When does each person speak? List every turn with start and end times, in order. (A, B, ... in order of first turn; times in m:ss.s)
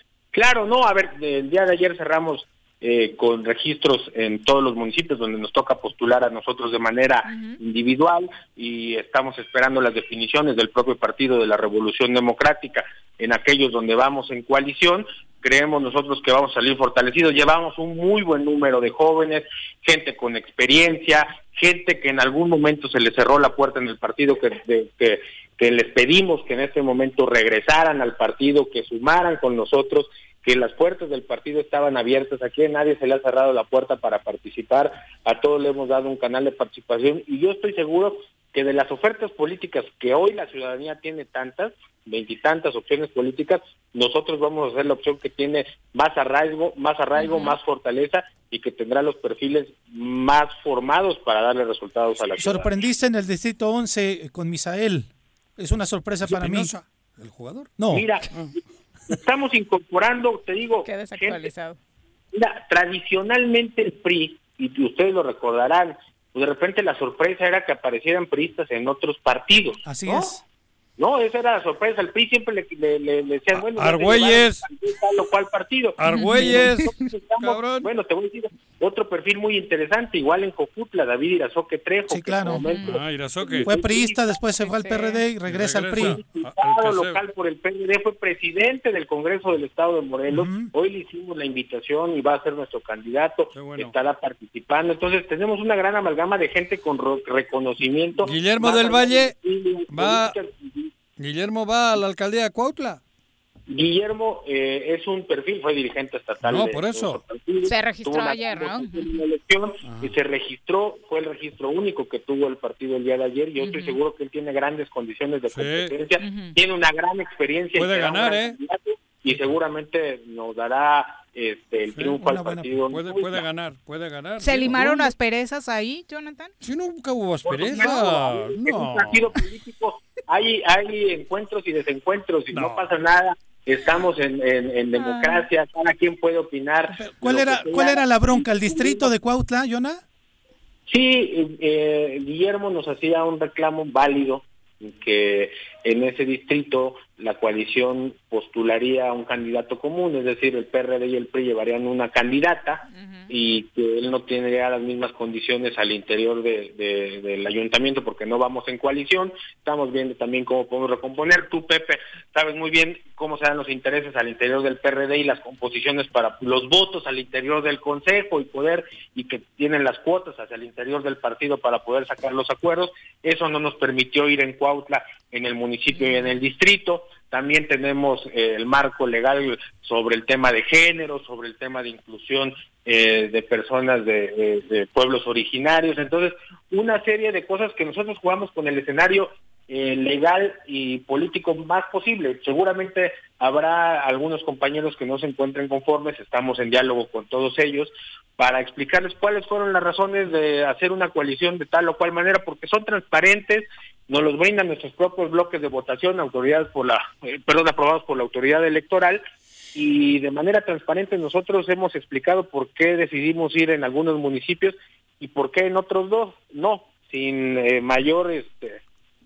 0:00.3-0:52.7 A
0:07.3-0:07.6 B
0:47.2-0:47.6 B
0:52.4-0:56.7 C
0:56.2-0:57.7 D
0:57.8-0:58.1 C
0:57.8-0:58.3 A
0:59.1-1:01.5 A
1:00.8-1:01.8 B
1:02.3-1:10.3 A
1:09.8-1:10.4 C
1:11.0-1:24.4 A
1:13.5-1:14.6 D
1:16.0-1:17.9 D
1:16.1-1:17.1 B
1:22.1-1:22.6 C
1:22.6-1:23.0 B
1:22.8-1:23.7 D
1:23.6-1:26.2 C
1:24.6-1:25.2 B
1:25.5-1:27.2 D
1:25.9-1:40.9 A
1:30.3-1:30.7 C
1:33.5-1:33.9 D
1:38.2-1:39.3 D
1:39.9-1:40.4 D
1:41.2-1:43.0 D
1:43.7-2:03.4 A
1:46.4-1:47.2 D
1:47.6-1:49.1 B
1:49.8-1:50.1 D
1:53.6-1:54.0 B
1:55.5-1:55.9 D
1:56.2-1:56.5 B
1:57.8-1:58.6 D
2:01.9-2:02.2 D
2:02.2-2:02.8 C
2:02.9-2:05.1 D
2:04.4-2:06.5 B
2:06.6-2:09.3 D
2:07.4-2:19.1 A
2:12.5-2:12.9 D
2:15.0-2:15.4 B
2:16.9-2:20.0 C
2:20.9-3:29.2 A
2:32.9-2:33.3 B
2:55.9-2:56.3 B
3:29.7-3:38.8 A